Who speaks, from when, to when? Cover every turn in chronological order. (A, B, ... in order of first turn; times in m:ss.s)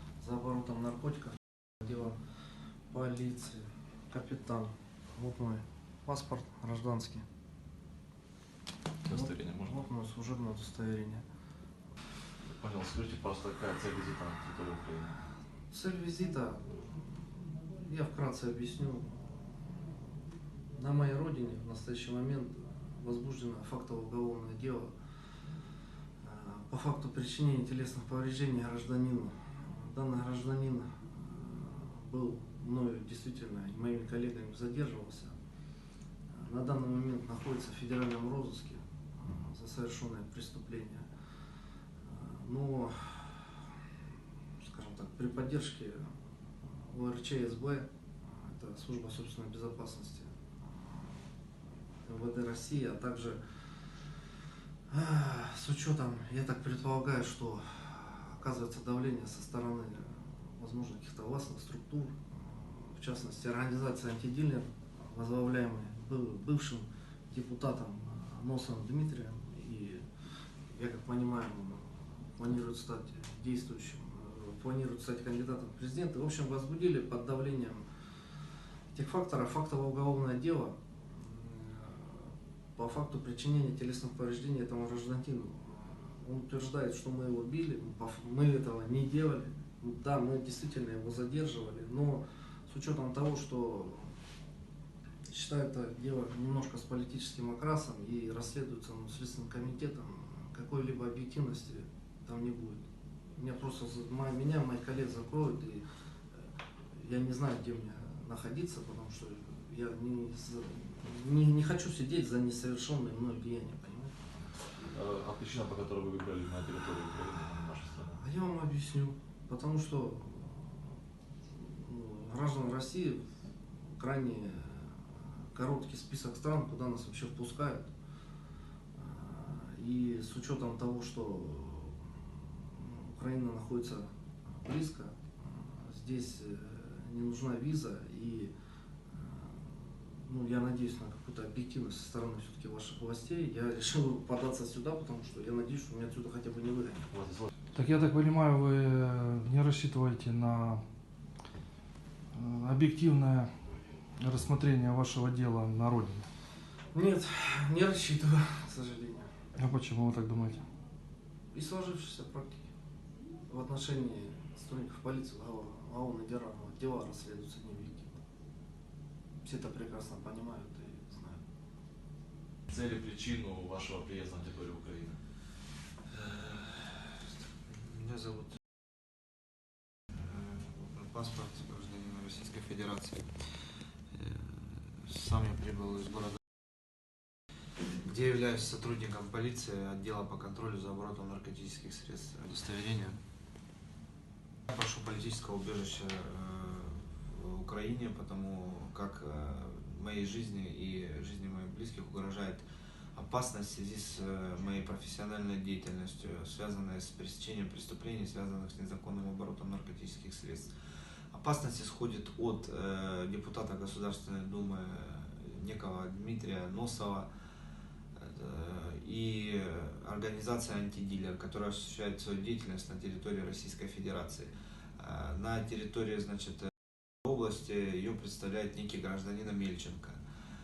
0:00.2-0:02.2 A
0:02.9-0:07.2 A
0:09.0-0:09.8 B
0:09.1-0:11.2 A
0:12.4-0:15.2 B
0:15.7-0:20.1 A
0:20.7-0:24.9 A
0:26.2-0:35.3 A
0:36.3-0:41.1 A
0:42.0-0:43.7 A
0:44.6-0:51.2 A
0:52.0-0:53.4 A
0:54.9-1:10.0 A
1:10.7-1:17.8 A
1:18.9-1:34.1 A
1:35.3-1:42.8 A
1:43.4-1:45.8 A
1:47.0-1:54.1 A
1:54.8-1:58.2 B
1:58.2-2:03.2 A
2:03.9-2:07.9 A
2:08.9-2:18.5 A
2:19.1-2:27.1 A
2:27.1-2:27.5 B
2:27.7-2:30.8 C
2:32.3-2:33.5 C
2:34.2-2:36.3 C
2:36.9-2:39.3 A
2:39.6-2:40.6 C
2:41.5-2:42.7 A
2:43.5-2:48.2 A
2:49.4-2:51.4 A
2:52.7-2:55.2 B
2:56.1-2:58.6 D
3:00.1-3:03.3 D
3:04.1-3:06.4 D
3:08.0-3:13.2 D
3:14.7-3:22.6 D
3:23.1-3:30.7 D
3:31.3-3:37.3 D
3:38.2-3:46.7 D
3:47.2-3:50.2 D